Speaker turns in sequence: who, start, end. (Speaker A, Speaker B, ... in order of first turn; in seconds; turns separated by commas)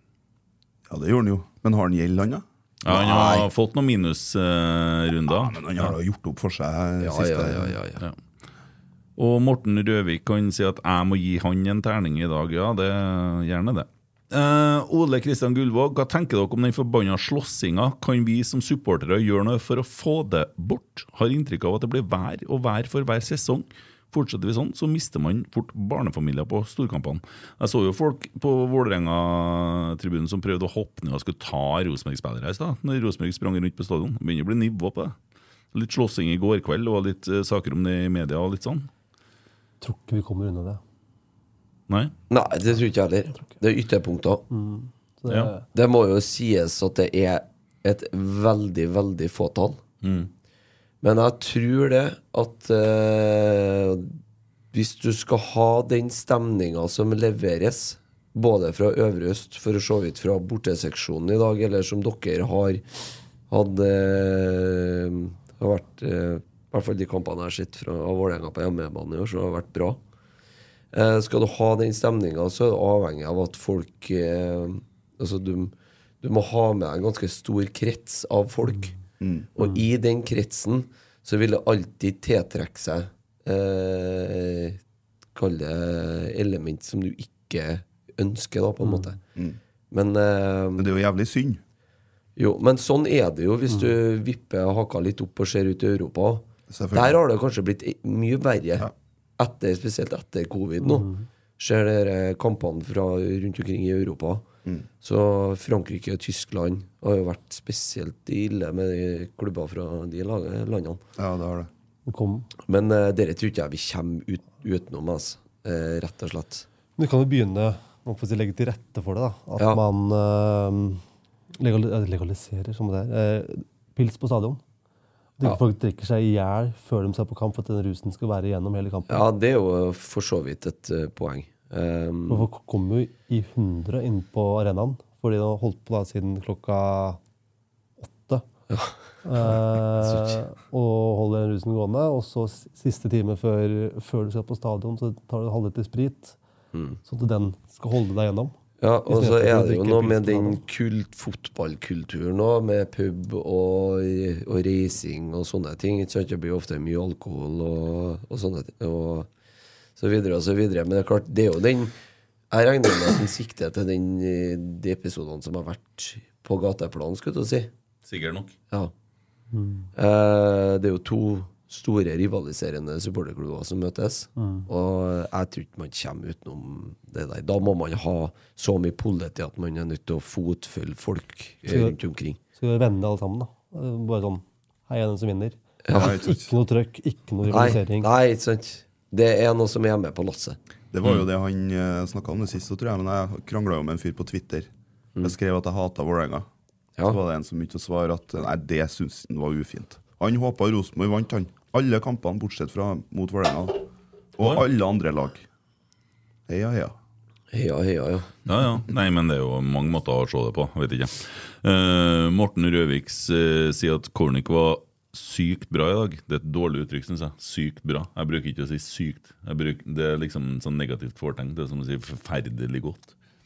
Speaker A: 0.9-2.4, Speaker B: 2.8-5.9, Speaker C: 2.9-3.4, Speaker A: 5.3-7.8, Speaker C: 7.0-8.0, Speaker B: 9.2-35.1, Speaker B: 35.7-38.9, Speaker D: 39.8-40.8, Speaker C: 42.3-44.5, Speaker D: 44.5-45.7, Speaker C: 45.7-49.8, Speaker B: 50.0-50.3, Speaker C: 51.0-54.1, Speaker C: 54.7-62.9, Speaker C: 63.5-70.0, Speaker C: 70.9-78.9, Speaker A: 79.2-79.5, Speaker C: 79.5-84.8, Speaker C: 85.3-89.2, Speaker C: 89.9-90.9, Speaker A: 90.8-91.6, Speaker C: 92.4-101.1, Speaker A: 96.7-97.2, Speaker D: 100.8-101.2, Speaker C: 101.6-104.5, Speaker C: 105.0-111.0, Speaker A: 111.2-111.7, Speaker D: 112.1-112.5, Speaker C: 112.7-116.7, Speaker D: 117.0-121.0, Speaker D: 121.6-124.6, Speaker D: 125.4-129.2, Speaker C: 129.1-132.5, Speaker D: 132.3-137.2, Speaker D: 138.0-138.4, Speaker C: 138.7-138.9, Speaker D: 139.2-146.4, Speaker C: 140.1-140.3, Speaker C: 146.7-147.0, Speaker D: 147.1-148.5, Speaker C: 148.8-159.3, Speaker D: 149.1-150.6, Speaker C: 160.0-161.9, Speaker C: 162.5-167.7, Speaker B: 168.1-168.5, Speaker D: 169.5-169.9, Speaker C: 170.0-182.4, Speaker D: 174.4-174.7, Speaker D: 181.7-182.0, Speaker D: 182.6-188.1, Speaker C: 185.8-186.1, Speaker A: 185.9-186.5, Speaker C: 187.5-190.6, Speaker A: 190.9-194.7, Speaker A: 195.2-196.5, Speaker A: 197.1-205.5, Speaker A: 206.5-206.9, Speaker C: 207.5-208.3, Speaker B: 208.5-223.2